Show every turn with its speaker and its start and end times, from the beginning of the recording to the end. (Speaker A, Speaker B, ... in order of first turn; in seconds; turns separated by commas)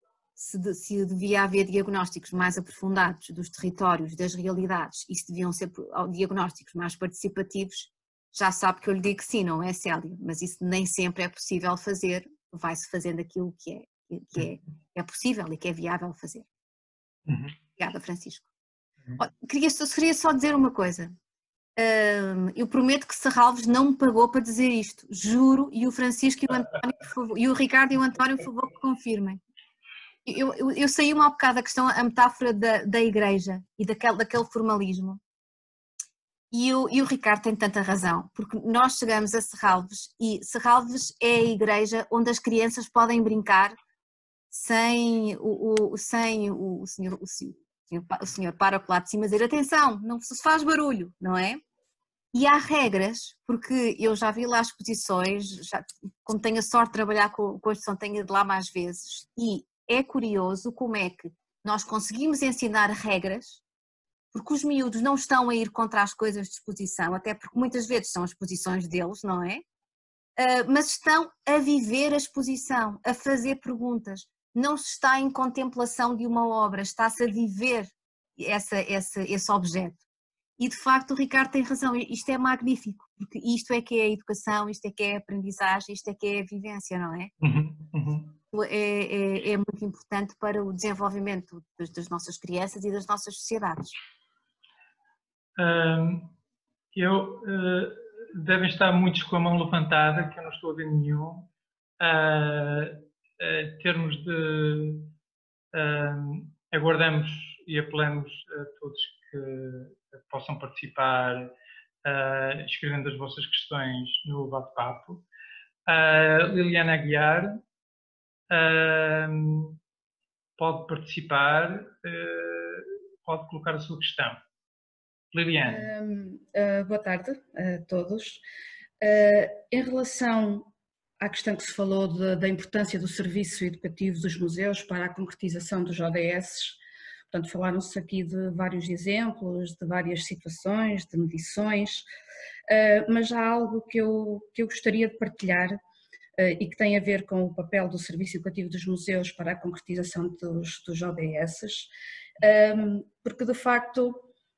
Speaker A: 0.4-16.4, Speaker B: 17.3-17.5, Speaker A: 17.8-18.5, Speaker A: 19.2-21.1, Speaker A: 21.8-29.4, Speaker A: 30.2-35.2, Speaker A: 36.5-43.8, Speaker A: 44.5-51.6, Speaker A: 52.3-63.6, Speaker A: 64.3-69.6, Speaker A: 70.4-80.0, Speaker A: 80.6-87.3, Speaker B: 87.4-88.4, Speaker A: 88.5-93.9, Speaker B: 95.6-96.3, Speaker B: 96.9-101.5, Speaker B: 102.0-105.1, Speaker B: 105.7-111.5, Speaker B: 112.0-115.2, Speaker B: 115.9-117.6, Speaker B: 118.5-119.8, Speaker B: 120.6-124.4, Speaker B: 125.3-125.9, Speaker C: 125.6-128.4, Speaker C: 129.0-136.8, Speaker C: 137.3-142.1, Speaker C: 142.7-145.8, Speaker C: 146.4-154.3